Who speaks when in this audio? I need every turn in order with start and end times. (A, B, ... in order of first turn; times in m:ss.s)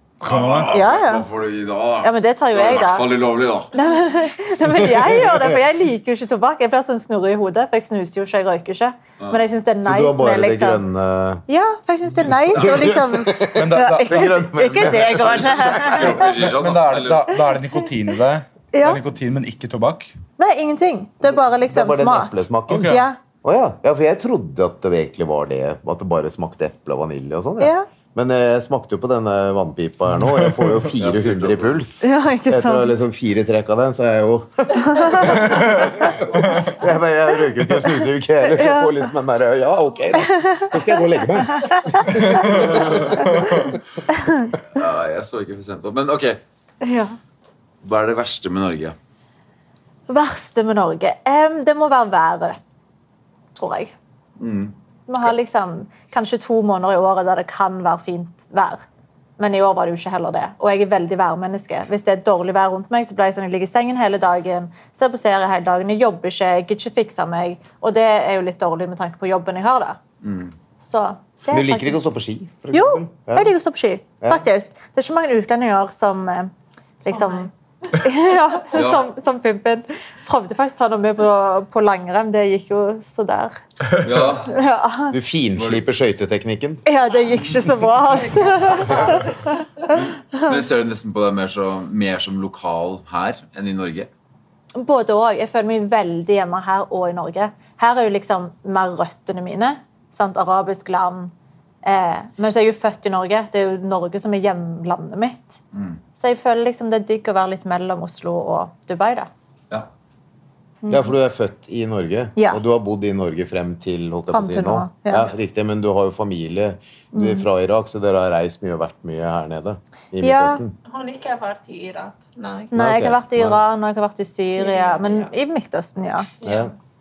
0:00.2-0:00.7 A
0:00.2-0:03.7 B
0:00.7-0:01.3 C
0:02.0-0:03.1 C
0:03.7-0:10.8 C
0:04.7-0:05.6 D
0:09.8-0:11.4 D
0:11.5-0:16.2 C
0:12.4-0:16.2 D
0:12.6-0:12.8 B
0:13.5-0:14.9 A
0:15.2-0:17.4 B
0:16.0-0:20.2 A
0:18.7-0:19.0 C
0:20.4-0:23.2 C
0:21.2-0:43.7 D
0:22.7-0:23.0 A
0:27.6-0:27.9 C
0:30.2-0:30.8 A
0:31.0-0:31.8 B
0:32.0-0:33.0 C
0:34.8-0:35.3 C
0:35.2-0:36.0 A
0:38.4-0:39.0 C
0:40.2-0:40.8 C
0:41.6-0:42.1 C
0:42.1-0:43.8 A
0:44.8-0:46.4 B
0:46.8-0:47.2 C
0:47.8-0:49.0 B
0:50.1-0:52.6 C
0:53.6-0:53.9 C
0:54.4-0:54.7 B
0:55.1-0:58.8 C
0:59.4-1:10.0 C
1:10.2-1:10.5 B
1:10.8-1:12.0 C
1:11.5-1:13.5 D
1:12.7-1:16.5 C
1:17.0-1:23.6 C
1:17.0-1:17.5 E
1:18.7-1:19.0 B
1:24.0-1:24.5 B
1:24.5-1:25.2 C
1:25.1-1:26.8 D
1:25.6-1:25.8 B
1:26.9-1:29.6 C
1:27.1-1:27.4 E
1:28.1-1:29.3 E
1:29.9-1:34.1 B
1:34.8-1:45.6 C
1:45.7-1:46.0 B
1:46.2-1:49.3 C
1:50.8-1:51.1 C
1:50.9-2:00.7 D
1:52.4-1:52.6 C
1:54.3-1:55.3 C
1:57.1-1:57.5 C
2:00.2-2:00.6 C
2:00.9-2:02.7 E
2:02.7-2:06.3 C
2:02.7-2:03.6 D
2:04.4-2:05.3 E
2:06.4-2:06.7 E
2:06.4-2:06.7 D